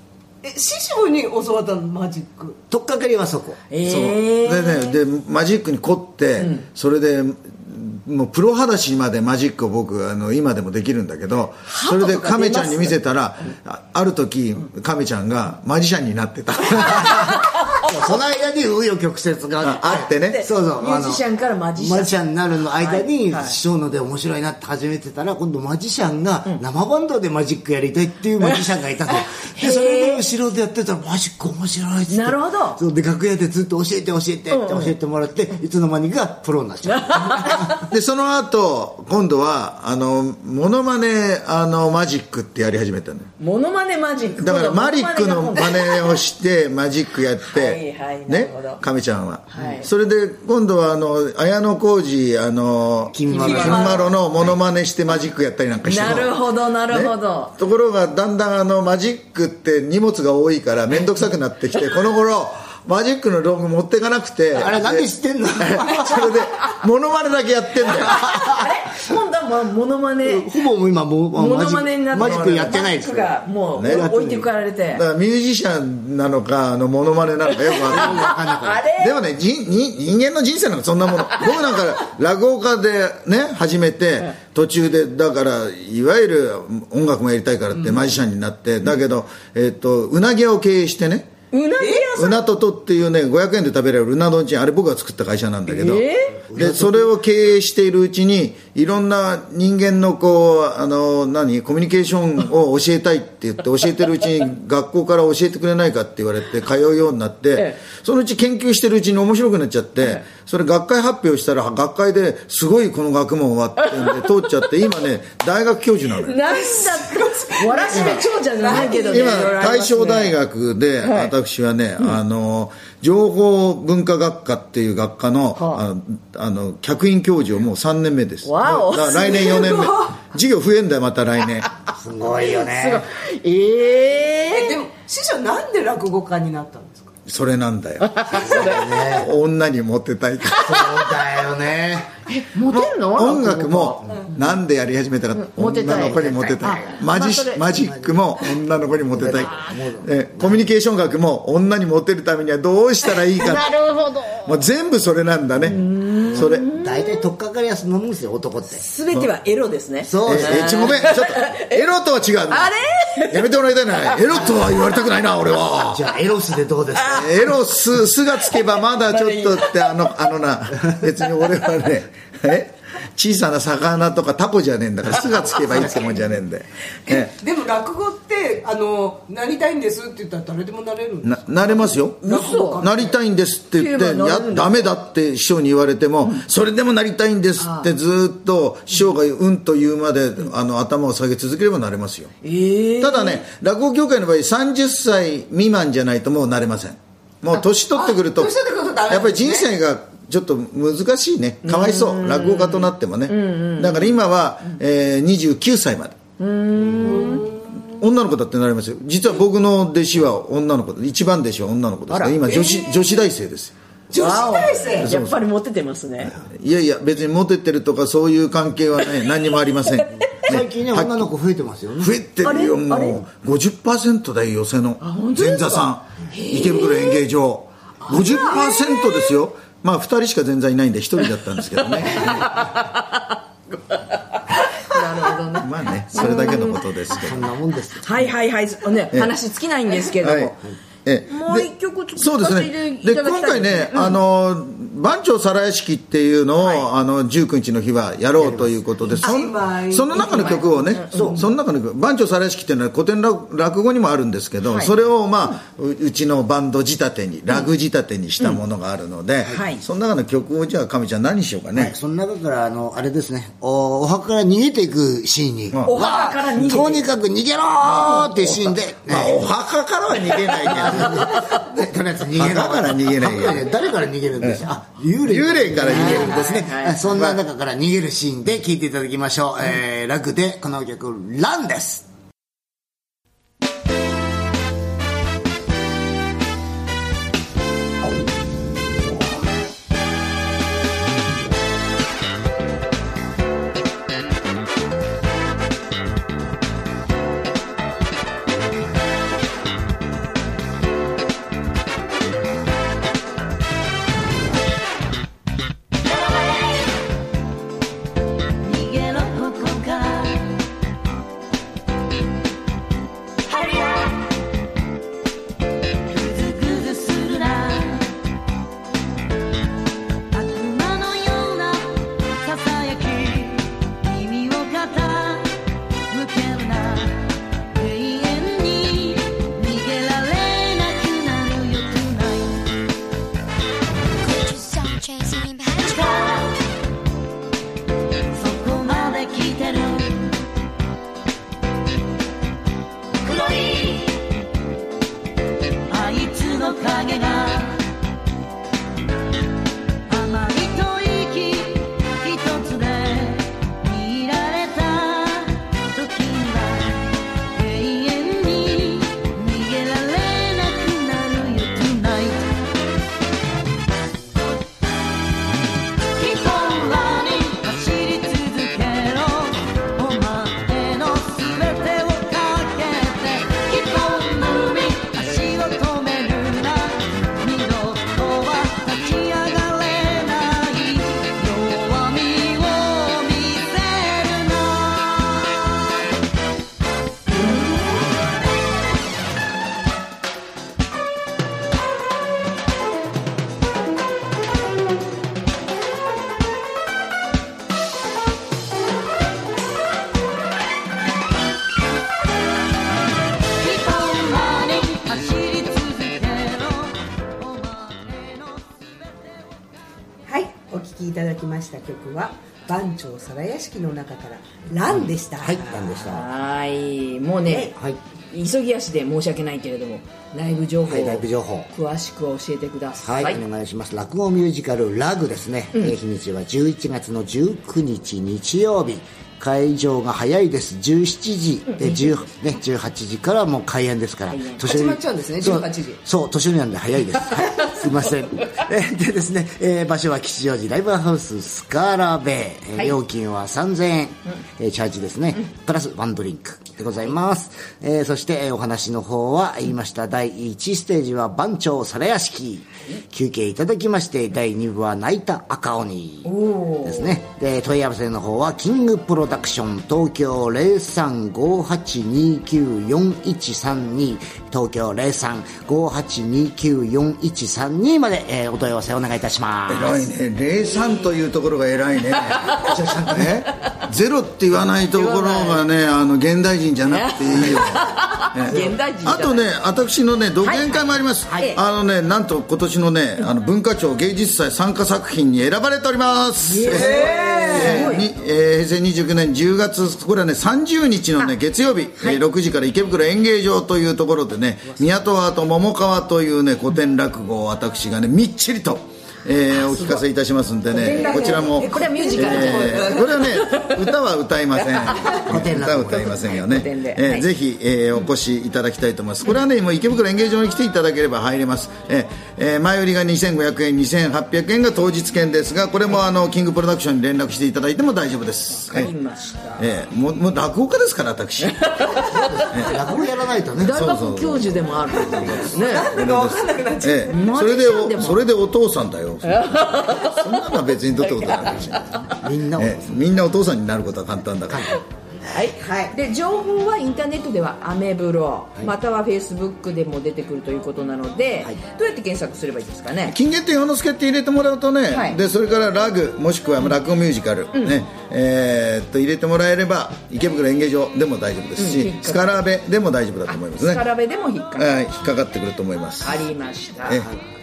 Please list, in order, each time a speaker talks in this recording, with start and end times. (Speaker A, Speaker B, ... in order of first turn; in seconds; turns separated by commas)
Speaker A: 0.4-2.6, Speaker B: 2.7-3.6, Speaker C: 3.7-5.0, Speaker D: 3.8-17.4, Speaker C: 6.4-6.7, Speaker C: 11.7-13.0, Speaker C: 16.7-17.9, Speaker B: 17.8-21.2, Speaker D: 19.6-20.4, Speaker C: 19.9-22.1, Speaker B: 21.8-37.8, Speaker C: 22.7-23.6, Speaker C: 29.1-30.2, Speaker C: 32.1-32.8, Speaker C: 34.5-34.9, Speaker C: 36.9-37.9, Speaker D: 37.9-43.3, Speaker C: 43.4-46.2, Speaker D: 44.4-68.4, Speaker C: 47.5-48.8, Speaker C: 49.5-49.9, Speaker B: 53.1-54.6, Speaker C: 53.3-54.1, Speaker C: 55.8-57.5, Speaker B: 64.5-66.4, Speaker C: 67.9-70.5, Speaker B: 68.0-68.6, Speaker B: 70.2-74.5, Speaker C: 71.3-75.0, Speaker D: 72.2-72.8, Speaker D: 73.7-74.1, Speaker D: 74.9-78.3, Speaker C: 77.5-79.2, Speaker B: 77.9-78.9, Speaker D: 79.0-91.3, Speaker C: 91.5-92.4, Speaker A: 91.8-92.3, Speaker D: 92.2-116.4, Speaker C: 95.7-96.4, Speaker B: 96.3-97.1, Speaker C: 113.8-114.5, Speaker C: 116.2-120.4, Speaker A: 116.5-119.6, Speaker D: 117.9-118.2, Speaker D: 118.7-131.7, Speaker C: 121.0-121.3, Speaker C: 125.6-125.8, Speaker C: 128.4-129.6, Speaker A: 129.1-130.2, Speaker B: 131.9-133.1, Speaker C: 132.4-134.8, Speaker A: 134.4-137.1, Speaker D: 137.3-140.9, Speaker C: 138.0-139.1, Speaker B: 138.3-139.3, Speaker B: 140.6-142.2, Speaker C: 142.3-144.6, Speaker D: 142.7-153.8, Speaker C: 145.3-147.8, Speaker B: 145.8-146.8, Speaker B: 147.7-148.5, Speaker B: 149.1-150.7, Speaker C: 149.3-149.8, Speaker C: 153.1-154.6, Speaker D: 154.4-156.7, Speaker C: 155.6-157.3, Speaker B: 156.3-158.8, Speaker C: 158.7-161.9, Speaker B: 160.0-161.0, Speaker D: 160.2-162.7, Speaker C: 162.5-163.5, Speaker D: 163.3-166.1, Speaker C: 164.1-164.5, Speaker B: 165.8-167.5, Speaker C: 166.9-167.4, Speaker D: 167.1-177.3, Speaker C: 168.4-170.3, Speaker B: 175.5-176.2, Speaker A: 177.1-183.2, Speaker D: 181.2-192.3, Speaker C: 182.2-182.9, Speaker C: 183.8-184.8, Speaker C: 187.6-187.9, Speaker C: 192.4-193.5, Speaker D: 193.0-198.6, Speaker A: 197.9-199.7, Speaker D: 199.1-206.2, Speaker C: 201.6-204.2, Speaker C: 206.4-207.6, Speaker A: 206.8-207.8, Speaker D: 207.9-213.7, Speaker C: 212.1-212.6, Speaker A: 212.5-213.2, Speaker A: 214.1-215.1, Speaker C: 214.2-216.4, Speaker D: 215.0-215.4, Speaker D: 216.3-221.3, Speaker C: 219.9-220.5, Speaker B: 220.3-222.2, Speaker D: 222.0-232.6, Speaker C: 222.4-223.2, Speaker C: 225.0-227.2, Speaker C: 228.1-229.3, Speaker C: 231.6-237.4, Speaker D: 235.5-237.5, Speaker B: 237.1-238.3, Speaker C: 238.0-240.6, Speaker D: 240.2-240.5, Speaker D: 241.1-261.9, Speaker C: 241.3-244.2, Speaker C: 246.6-246.9, Speaker B: 248.4-249.2, Speaker C: 249.2-251.4, Speaker A: 249.2-250.7, Speaker B: 251.1-251.4, Speaker C: 254.7-254.9, Speaker C: 259.5-259.8, Speaker B: 261.7-269.4, Speaker C: 265.9-267.1, Speaker C: 267.9-268.3, Speaker D: 268.2-271.4, Speaker B: 270.7-282.1, Speaker C: 270.7-271.6, Speaker D: 272.3-273.7, Speaker D: 274.4-274.6, Speaker D: 275.2-277.4, Speaker C: 275.8-277.0, Speaker E: 308.6-310.6, Speaker E: 313.5-314.0, Speaker E: 316.1-318.1, Speaker E: 320.3-325.5, Speaker E: 326.1-332.7, Speaker F: 334.2-336.5, Speaker E: 335.8-336.5, Speaker E: 338.3-340.4, Speaker E: 343.3-344.2, Speaker E: 345.9-347.8, Speaker E: 350.1-362.6, Speaker E: 366.1-385.7, Speaker E: 403.6-408.9, Speaker A: 410.3-416.1, Speaker B: 414.9-416.3, Speaker C: 416.1-417.8, Speaker B: 417.5-418.0, Speaker C: 418.3-423.4, Speaker B: 420.8-421.7, Speaker B: 423.0-470.1, Speaker C: 431.8-432.1, Speaker C: 434.3-434.7, Speaker A: 434.6-436.0, Speaker C: 456.3-457.2, Speaker D: 469.7-472.6, Speaker C: 472.3-472.6, Speaker B: 472.5-473.4, Speaker D: 473.1-518.9, Speaker C: 474.9-475.6, Speaker C: 476.9-479.5, Speaker B: 477.3-477.6, Speaker B: 478.5-478.8, Speaker C: 480.4-481.6, Speaker C: 486.4-488.1, Speaker A: 486.6-488.0, Speaker C: 500.7-503.8, Speaker A: 500.7-503.6, Speaker C: 504.7-505.2, Speaker B: 505.2-506.3, Speaker C: 506.0-507.3, Speaker C: 518.6-519.7, Speaker D: 519.6-521.7, Speaker C: 521.4-522.6, Speaker B: 521.9-523.8, Speaker D: 523.6-534.7, Speaker C: 523.6-526.0, Speaker A: 525.1-527.3, Speaker C: 527.1-528.2, Speaker C: 529.2-532.3, Speaker B: 531.9-533.0, Speaker B: 534.5-534.8, Speaker C: 534.7-543.2, Speaker A: 535.6-536.0, Speaker D: 543.0-553.9, Speaker C: 544.9-545.2, Speaker C: 547.5-547.8, Speaker C: 551.6-552.4, Speaker C: 553.3-554.7, Speaker D: 554.6-556.3, Speaker C: 556.0-557.1